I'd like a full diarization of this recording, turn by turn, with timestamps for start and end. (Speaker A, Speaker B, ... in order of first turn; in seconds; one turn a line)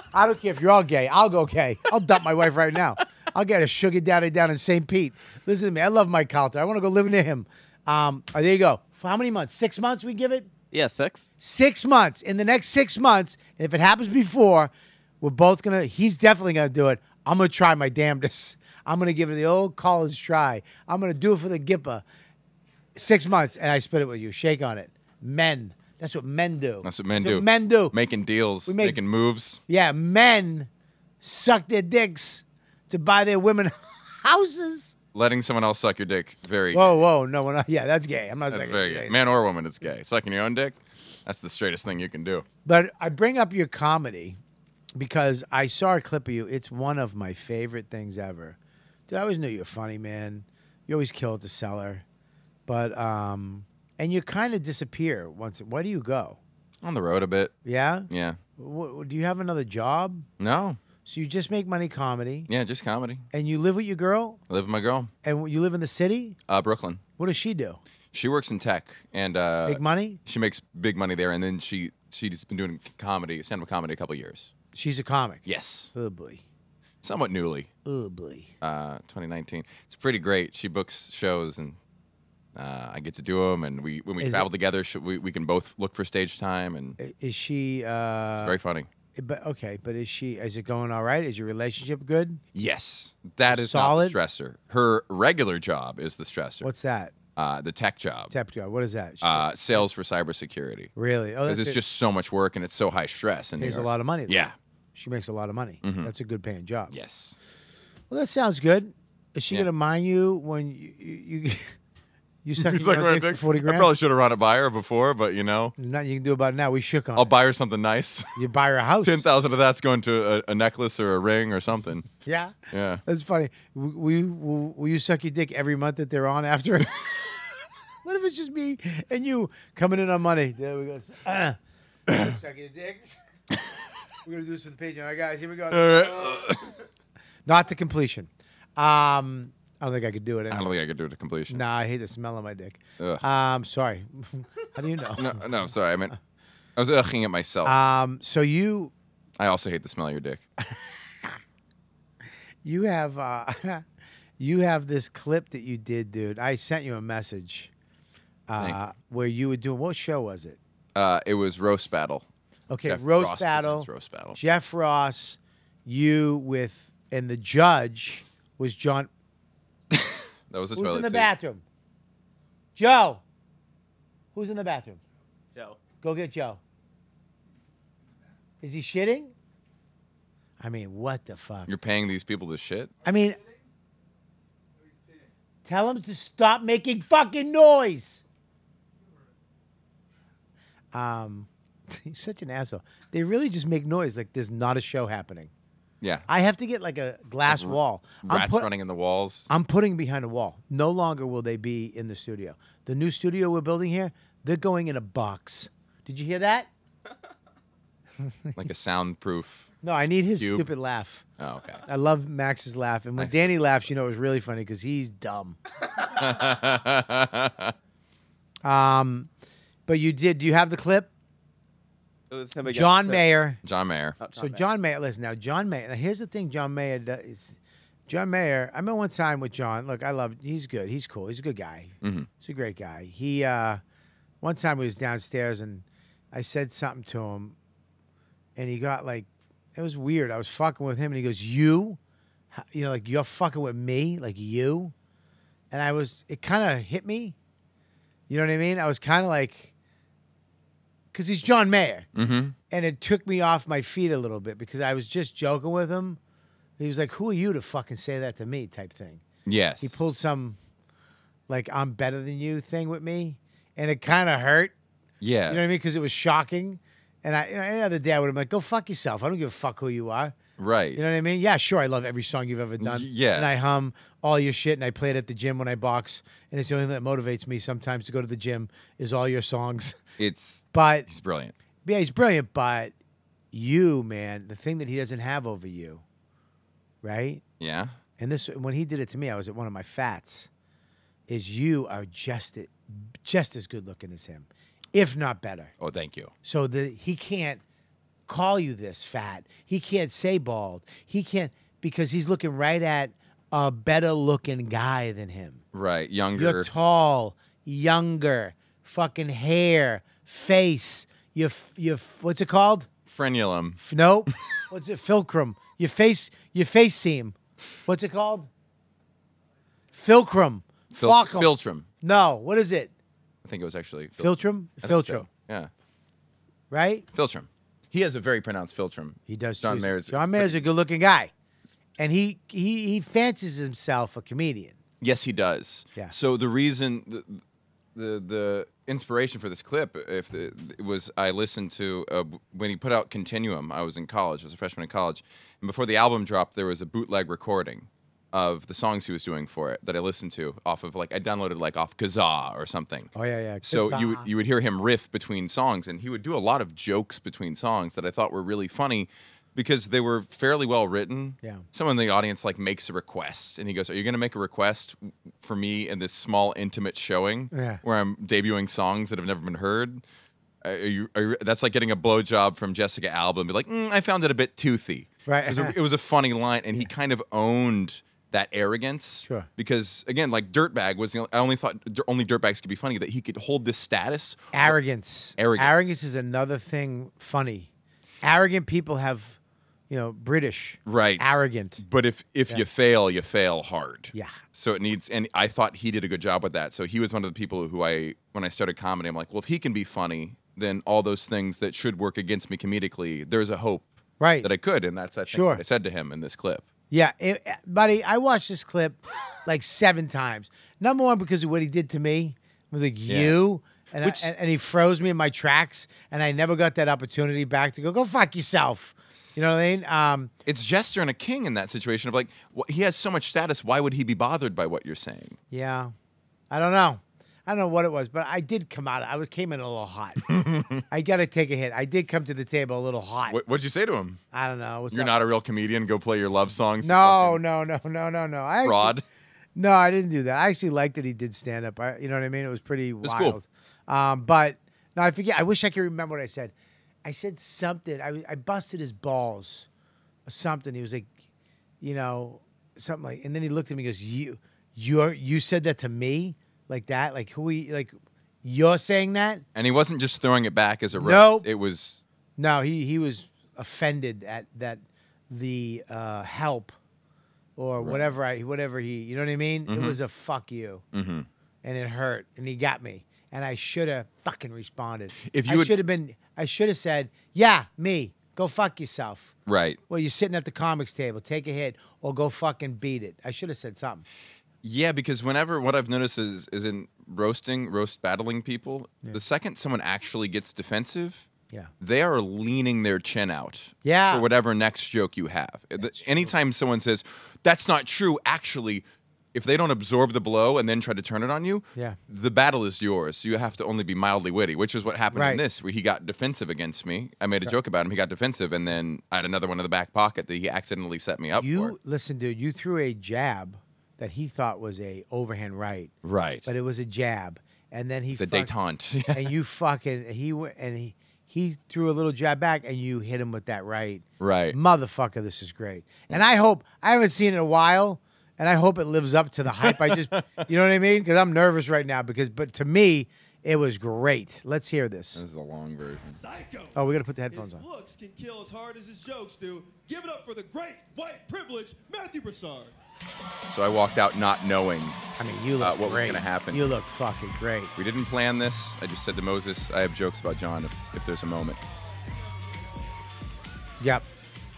Speaker A: 0.1-10.5
Speaker B: 10.7-11.3
Speaker A: 11.4-22.0
Speaker A: 22.9-27.9
Speaker C: 26.8-29.6
Speaker A: 28.6-29.0
Speaker A: 29.7-30.7
Speaker A: 31.2-34.9
Speaker C: 35.1-36.9
Speaker A: 36.7-39.1
Speaker C: 38.5-42.5
Speaker A: 42.6-44.4
Speaker A: 44.9-48.6
Speaker A: 49.1-52.0
Speaker A: 52.7-56.4
Speaker C: 56.8-57.5
Speaker A: 57.6-60.2
Speaker C: 58.1-58.4
Speaker C: 60.4-60.8
Speaker A: 61.0-62.5
Speaker C: 62.5-63.2
Speaker A: 63.3-64.4
Speaker C: 64.5-65.1
Speaker A: 65.2-66.4
Speaker C: 66.5-67.0
Speaker A: 67.2-67.8
Speaker C: 68.1-74.5
Speaker A: 69.7-70.2
Speaker A: 74.7-76.4
Speaker C: 75.5-75.9
Speaker C: 77.0-77.7
Speaker A: 77.8-78.5
Speaker C: 78.6-81.8
Speaker C: 82.5-87.0
Speaker A: 84.2-84.5
Speaker A: 87.0-88.6
Speaker C: 88.4-88.9
Speaker A: 89.1-92.4
Speaker C: 92.5-96.7
Speaker A: 93.5-94.2
Speaker A: 96.6-97.1
Speaker C: 97.3-98.3
Speaker A: 98.3-99.8
Speaker C: 99.2-100.9
Speaker A: 101.0-101.8
Speaker C: 101.5-104.5
Speaker A: 103.6-106.9
Speaker C: 105.8-106.1
Speaker C: 106.9-107.4
Speaker A: 108.1-111.7
Speaker A: 112.4-113.9
Speaker C: 112.6-115.7
Speaker A: 115.8-117.3
Speaker C: 117.2-118.4
Speaker A: 118.3-119.2
Speaker C: 119.0-122.1
Speaker A: 122.2-122.5
Speaker C: 122.7-123.0
Speaker A: 123.0-127.3
Speaker A: 128.0-133.2
Speaker A: 134.2-136.6
Speaker C: 135.7-136.7
Speaker A: 137.4-140.6
Speaker C: 140.5-141.6
Speaker A: 141.5-145.4
Speaker C: 143.0-143.2
Speaker C: 145.2-146.1
Speaker C: 146.8-147.8
Speaker A: 147.6-148.9
Speaker C: 149.4-150.4
Speaker A: 150.6-151.3
Speaker A: 152.6-153.8
Speaker A: 154.4-157.7
Speaker A: 158.5-160.6
Speaker C: 160.9-162.3
Speaker A: 162.7-169.1
Speaker C: 162.8-164.4
Speaker C: 169.9-171.3
Speaker A: 170.7-171.6
Speaker A: 172.8-173.2
Speaker A: 174.3-175.0
Speaker B: 175.5-175.8
Speaker A: 176.0-176.6
Speaker A: 178.6-179.3
Speaker A: 180.6-181.7
Speaker C: 181.7-182.9
Speaker A: 183.0-183.4
Speaker A: 185.7-188.2
Speaker A: 190.9-195.5
Speaker C: 196.0-196.3
Speaker A: 196.3-198.7
Speaker C: 197.4-199.5
Speaker A: 199.5-206.7
Speaker C: 208.6-209.7
Speaker A: 209.8-211.2
Speaker C: 210.4-210.7
Speaker C: 211.4-211.8
Speaker A: 211.8-215.6
Speaker C: 213.2-213.6
Speaker C: 216.0-217.7
Speaker A: 218.6-219.3
Speaker A: 219.9-221.1
Speaker B: 222.3-223.3
Speaker A: 222.6-223.6
Speaker C: 223.6-224.2
Speaker B: 224.2-224.6
Speaker A: 224.3-227.6
Speaker A: 228.1-233.8
Speaker C: 232.0-232.3
Speaker A: 234.4-237.6
Speaker A: 238.6-242.0
Speaker A: 242.5-244.9
Speaker A: 245.7-247.3
Speaker A: 248.3-249.7
Speaker A: 251.1-252.1
Speaker C: 252.1-252.6
Speaker A: 252.7-256.2
Speaker A: 256.8-259.2
Speaker C: 259.4-260.0
Speaker A: 259.8-260.6
Speaker A: 261.5-264.7
Speaker C: 265.2-265.6
Speaker A: 265.5-270.4
Speaker C: 270.6-271.0
Speaker A: 270.9-280.0
Speaker C: 272.8-273.5
Speaker C: 280.2-281.5
Speaker A: 280.7-281.1
Speaker A: 281.8-282.9
Speaker A: 283.5-286.0
Speaker A: 287.0-287.4
Speaker C: 287.6-287.9
Speaker A: 288.2-290.5
Speaker A: 291.3-295.7
Speaker C: 295.8-296.3
Speaker A: 296.4-297.6
Speaker A: 298.3-305.6
Speaker C: 305.7-306.7
Speaker A: 306.3-312.9
Speaker C: 313.1-313.8
Speaker A: 313.8-317.3
Speaker A: 317.9-318.5
Speaker A: 319.9-322.9
Speaker C: 321.0-321.9
Speaker C: 323.4-325.7
Speaker A: 324.2-325.3
Speaker A: 326.7-327.1
Speaker C: 327.1-330.6
Speaker A: 329.3-331.3
Speaker A: 332.0-334.8
Speaker C: 335.0-337.4
Speaker C: 337.9-353.1
Speaker A: 353.1-354.3
Speaker C: 353.6-370.0
Speaker A: 367.5-367.8
Speaker C: 370.6-384.8
Speaker A: 375.3-375.7
Speaker A: 384.5-387.7
Speaker C: 385.4-385.9
Speaker A: 388.2-389.4
Speaker A: 389.9-391.8
Speaker C: 390.9-406.6
Speaker A: 404.2-404.5
Speaker A: 405.3-405.6
Speaker A: 406.9-420.3
Speaker C: 413.1-413.4
Speaker C: 414.0-414.3
Speaker C: 420.4-425.4
Speaker A: 425.5-425.9
Speaker A: 426.5-430.3
Speaker C: 430.2-430.8
Speaker A: 430.9-433.4
Speaker C: 433.3-434.2
Speaker A: 434.3-435.1
Speaker C: 434.9-437.4
Speaker A: 436.8-438.9
Speaker C: 438.6-439.0
Speaker A: 439.6-449.7
Speaker C: 443.0-443.4
Speaker A: 450.3-451.1
Speaker A: 451.8-459.4
Speaker C: 459.5-462.0
Speaker A: 460.9-461.5
Speaker A: 462.4-466.7
Speaker A: 467.6-470.8
Speaker C: 467.8-468.1
Speaker C: 469.7-470.0
Speaker C: 470.9-471.3
Speaker A: 471.6-479.3
Speaker C: 475.2-475.7
Speaker C: 479.4-479.8
Speaker A: 479.9-484.0
Speaker C: 484.6-491.3
Speaker C: 491.8-511.8
Speaker A: 493.8-494.3
Speaker A: 495.8-496.3
Speaker A: 505.1-505.4
Speaker A: 511.4-515.9
Speaker C: 516.0-516.5
Speaker A: 516.5-518.5
Speaker C: 518.1-519.3
Speaker A: 519.1-535.2
Speaker C: 524.2-524.6
Speaker C: 529.6-530.0
Speaker C: 535.1-536.2
Speaker D: 536.0-542.7
Speaker A: 536.7-537.6
Speaker C: 543.5-545.0
Speaker A: 545.2-547.7
Speaker C: 545.6-546.8
Speaker C: 547.8-551.6
Speaker D: 552.0-552.9
Speaker A: 553.8-554.0